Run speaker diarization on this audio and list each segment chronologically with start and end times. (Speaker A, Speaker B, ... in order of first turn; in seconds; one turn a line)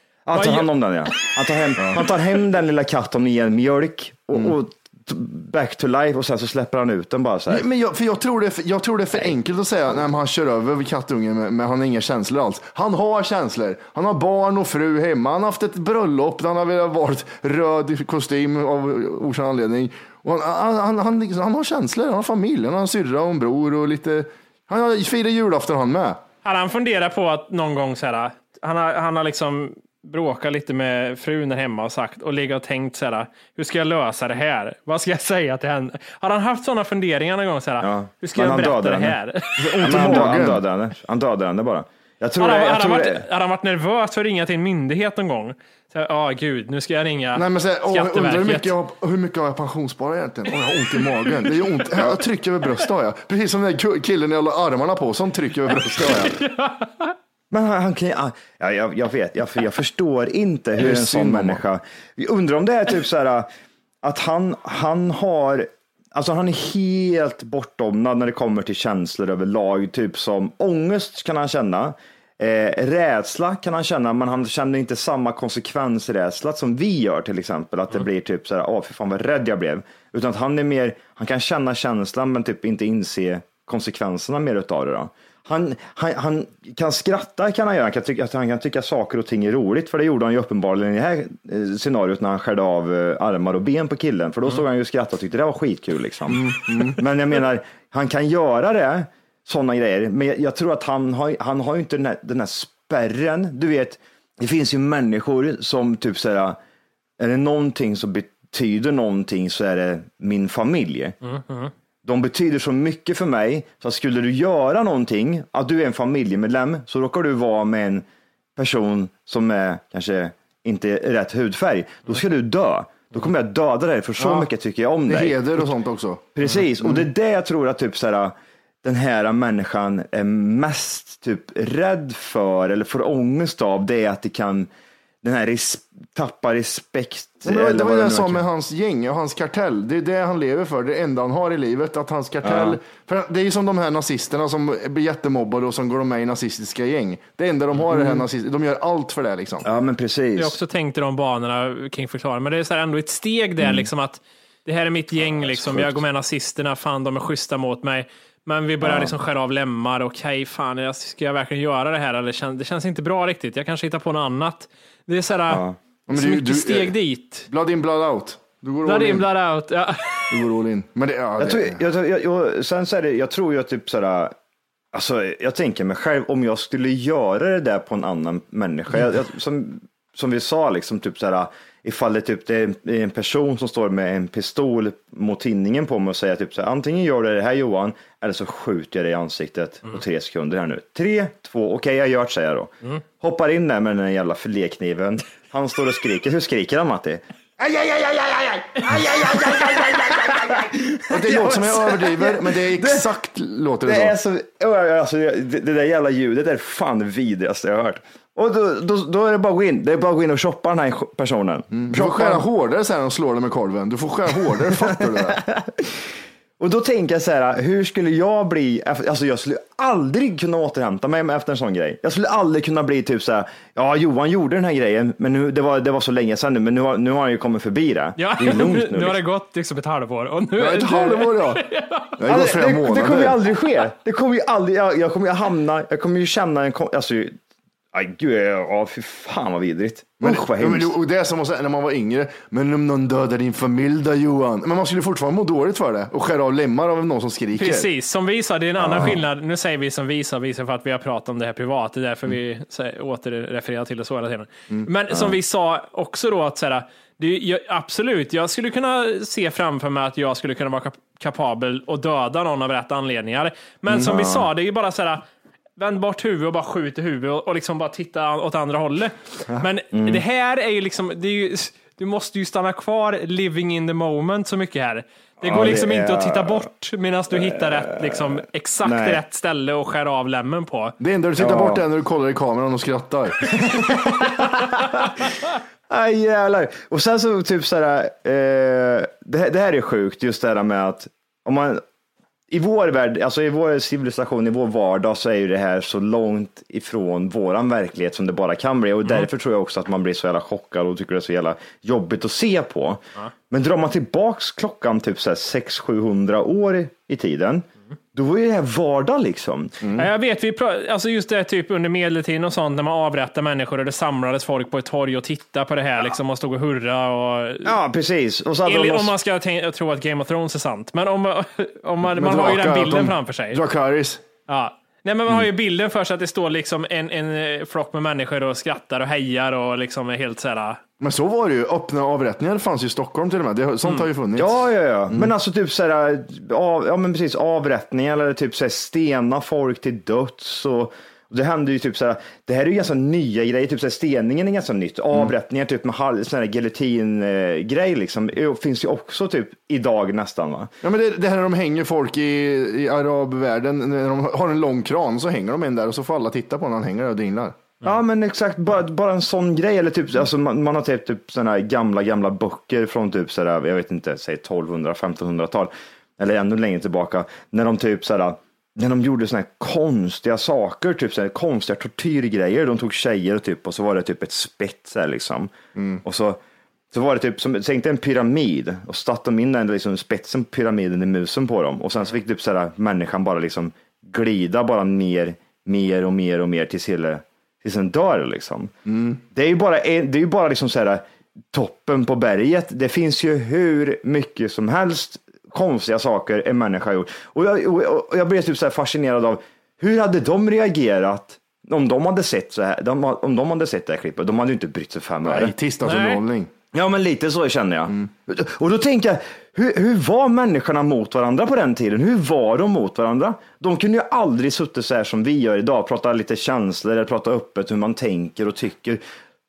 Speaker A: 0.3-7.7
Speaker B: 0.3-0.7
Speaker C: 7.5-26.2
Speaker B: 26.4-40.3
Speaker A: 37.8-39.2
Speaker C: 39.6-40.6
Speaker A: 39.8-43.3
Speaker B: 42.4-48.7
Speaker C: 47.3-56.4
Speaker B: 56.1-57.1
Speaker A: 57.5-63.5
Speaker C: 60.8-61.6
Speaker A: 64.0-106.6
Speaker C: 96.3-97.0
Speaker A: 107.2-111.2
Speaker B: 111.2-111.7
Speaker A: 112.0-118.0
Speaker A: 118.5-125.7
Speaker C: 124.2-124.5
Speaker C: 125.1-126.3
Speaker A: 126.3-134.7
Speaker A: 135.2-138.4
Speaker C: 137.4-149.6
Speaker A: 142.4-142.8
Speaker A: 147.8-148.3
Speaker A: 149.6-150.6
Speaker B: 150.4-167.5
Speaker A: 153.6-153.9
Speaker A: 155.2-156.0
Speaker A: 158.8-159.2
Speaker A: 165.5-165.8
Speaker C: 166.1-166.9
Speaker C: 167.5-169.2
Speaker B: 168.8-170.4
Speaker C: 170.3-171.8
Speaker A: 171.4-174.3
Speaker A: 174.9-197.2
Speaker C: 197.6-204.1
Speaker A: 198.9-203.1
Speaker A: 203.8-212.4
Speaker C: 211.7-215.4
Speaker A: 214.7-229.2
Speaker B: 228.2-232.1
Speaker C: 230.6-231.6
Speaker C: 232.2-233.3
Speaker A: 232.3-237.4
Speaker A: 237.9-240.9
Speaker C: 240.2-247.9
Speaker B: 247.6-265.2
Speaker A: 248.8-249.2
Speaker A: 255.1-255.4
Speaker A: 263.9-264.5
Speaker B: 265.8-280.9
Speaker A: 269.9-270.2
Speaker A: 275.4-276.7
Speaker A: 277.3-279.2
Speaker C: 281.0-283.6
Speaker A: 281.4-281.8
Speaker A: 283.5-285.2
Speaker A: 285.9-291.8
Speaker A: 292.5-309.8
Speaker B: 309.9-317.7
Speaker A: 317.6-319.1
Speaker B: 318.6-323.6
Speaker C: 322.0-324.2
Speaker B: 324.5-330.8
Speaker C: 331.0-335.3
Speaker A: 334.4-350.7
Speaker C: 350.8-357.6
Speaker A: 357.8-376.4
Speaker C: 375.8-376.0
Speaker A: 376.9-388.7
Speaker C: 388.9-389.2
Speaker A: 389.3-405.5
Speaker C: 405.2-406.5
Speaker B: 405.8-406.2
Speaker A: 406.7-419.0